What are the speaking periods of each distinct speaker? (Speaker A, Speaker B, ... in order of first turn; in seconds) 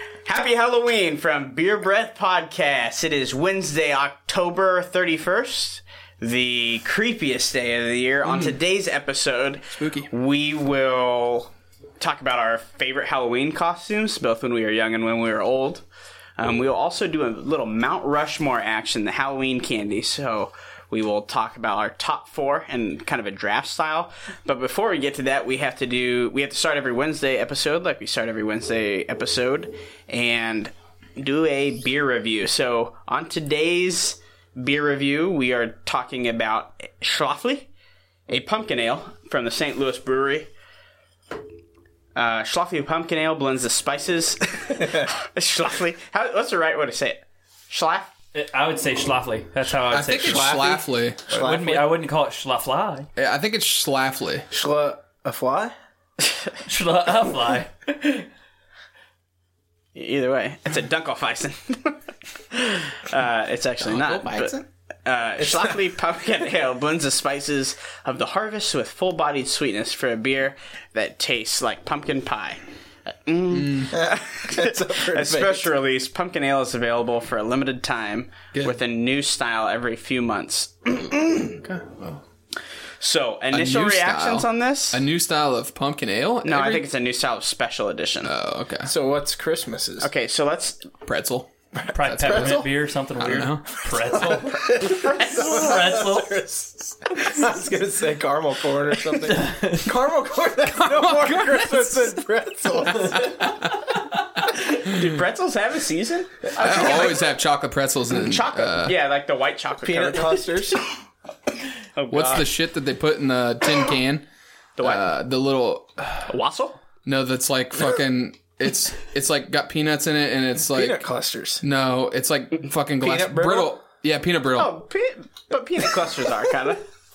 Speaker A: 0.2-15.8, 16.4-37.7, 38.3-40.5, 42.1-48.1, 59.9-72.6, 73.2-81.6, 83.0-85.0, 86.4-88.3, 90.0-90.9, 95.1-95.9, 104.5-107.2, 108.1-110.7, 111.9-112.5, 114.8-115.0, 116.3-116.8, 124.5-126.8
Speaker B: 8.2-8.6, 9.7-10.1, 49.9-51.2, 53.2-54.5, 63.8-64.6, 73.5-73.9, 81.5-82.2, 83.5-86.9, 88.2-88.9, 91.0-92.6, 93.2-93.8, 100.7-102.1, 102.9-103.9, 104.9-105.2, 106.6-109.0, 112.1-114.2, 114.8-116.3, 117.0-121.0, 121.6-124.8
Speaker C: 44.8-45.1, 50.2-51.9, 54.5-55.7, 73.9-75.7, 88.8-90.1, 91.8-92.7, 93.3-103.5, 109.8-110.8, 120.7-121.6, 123.0-123.8
Speaker D: 48.3-50.6, 51.3-53.1, 56.6-58.2, 91.9-96.4, 99.3-99.8